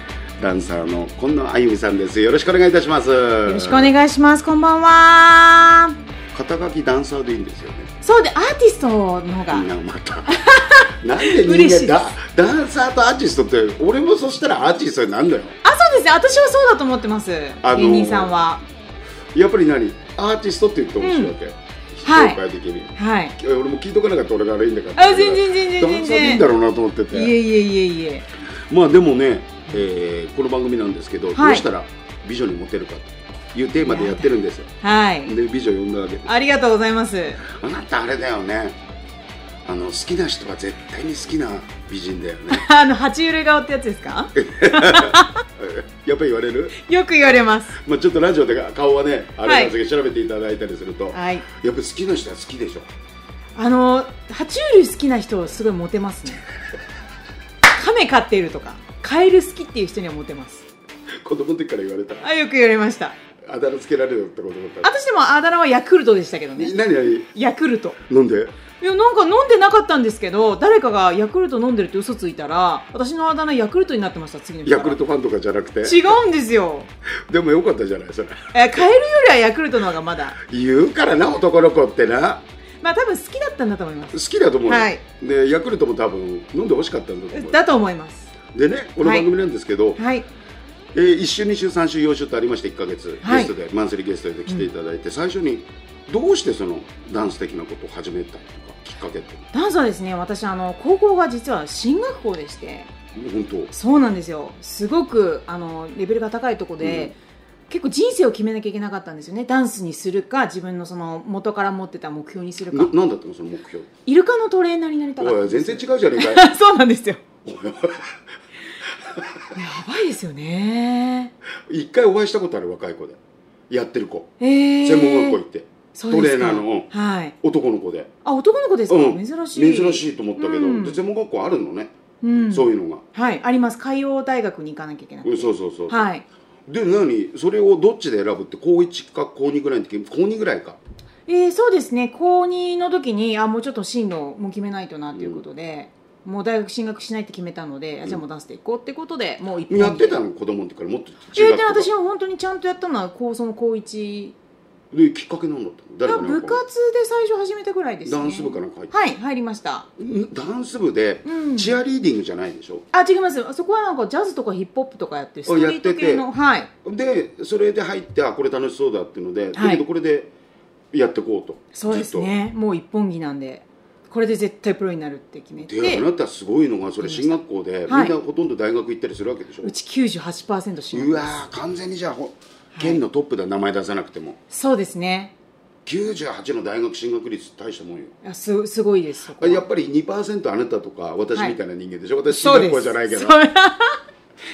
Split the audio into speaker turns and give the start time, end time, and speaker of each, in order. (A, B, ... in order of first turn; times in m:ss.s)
0:00.4-0:04.0 A
0:03.4-0:06.0 B
0:06.3-0:07.9 A
0:08.0-0:09.7 B
0:09.5-0:15.6 A
0:10.3-0:12.1 B
0:15.6-0:18.6 B
0:17.6-0:18.4 A
0:19.3-0:27.4 A
0:21.0-0:21.4 B
0:22.0-0:22.4 B
0:23.0-0:23.4 B
0:25.0-0:26.5 B
0:27.1-0:28.3 B
0:28.7-0:34.7 A
0:31.4-0:31.7 B
0:33.8-0:35.4 B
0:35.2-0:36.3 A
0:36.3-0:37.4 B
0:37.5-0:38.8 A
0:39.6-0:42.7 A
0:42.5-0:45.4 B
0:44.4-0:46.8 A
0:46.8-0:47.8 B
0:47.8-0:52.9 A
0:49.4-0:49.7 B
0:51.1-0:51.5 B
0:53.6-0:56.4 B
0:57.7-1:00.7 B
1:01.2-1:02.3 A
1:02.2-1:03.2 B
1:03.5-1:04.9 A
1:04.8-1:06.8 B
1:06.6-1:07.3 A
1:07.3-1:08.0 B
1:08.1-1:08.6 A
1:08.8-1:15.0 B
1:14.6-1:16.2 A
1:15.8-1:16.9 B
1:17.3-1:18.8 A
1:18.5-1:20.4 B
1:20.4-1:22.4 A
1:22.8-1:25.0 B
1:24.1-1:27.6 A
1:27.3-1:28.3 B
1:28.5-1:30.0 A
1:29.0-1:29.3 B
1:30.0-1:30.3 B
1:30.9-1:39.5 A
1:33.2-1:33.5 B
1:39.5-1:42.9 B
1:43.1-1:43.7 A
1:43.7-1:47.2 B
1:46.8-1:47.1 A
1:47.7-1:52.9 B
1:52.7-1:53.9 A
1:54.1-1:57.2 B
1:55.2-1:56.5 A
1:57.4-1:58.2 A
1:59.1-1:59.5 A
1:59.5-2:01.3 B
2:01.7-2:04.3 A
2:04.4-2:05.4 B
2:04.8-2:06.9 A
2:05.9-2:07.4 B
2:07.4-2:08.1 A
2:08.2-2:11.0 B
2:08.9-2:11.9 A
2:12.2-2:16.2 B
2:12.5-2:13.0 A
2:15.2-2:16.1 A
2:16.7-2:20.8 A
2:21.3-2:30.2 B
2:25.1-2:25.4 A
2:29.7-2:31.9 A
2:31.3-2:34.4 B
2:34.9-2:36.6 A
2:36.0-2:39.9 B
2:38.0-2:38.9 A
2:40.0-2:42.9 A
2:41.2-2:41.8 B
2:42.9-2:46.7 B
2:45.5-2:46.3 A
2:46.8-2:50.3 A
2:49.6-2:49.8 B
2:50.9-2:52.3 A
2:51.7-2:56.1 B
2:55.7-2:59.8 A
2:57.0-2:58.2 B
2:59.6-3:01.4 B
3:00.9-3:04.4 A
3:02.7-3:03.0 B
3:04.5-3:05.3 B
3:05.9-3:08.2 A
3:08.2-3:09.6 B
3:09.4-3:13.4 A
3:12.3-3:14.0 B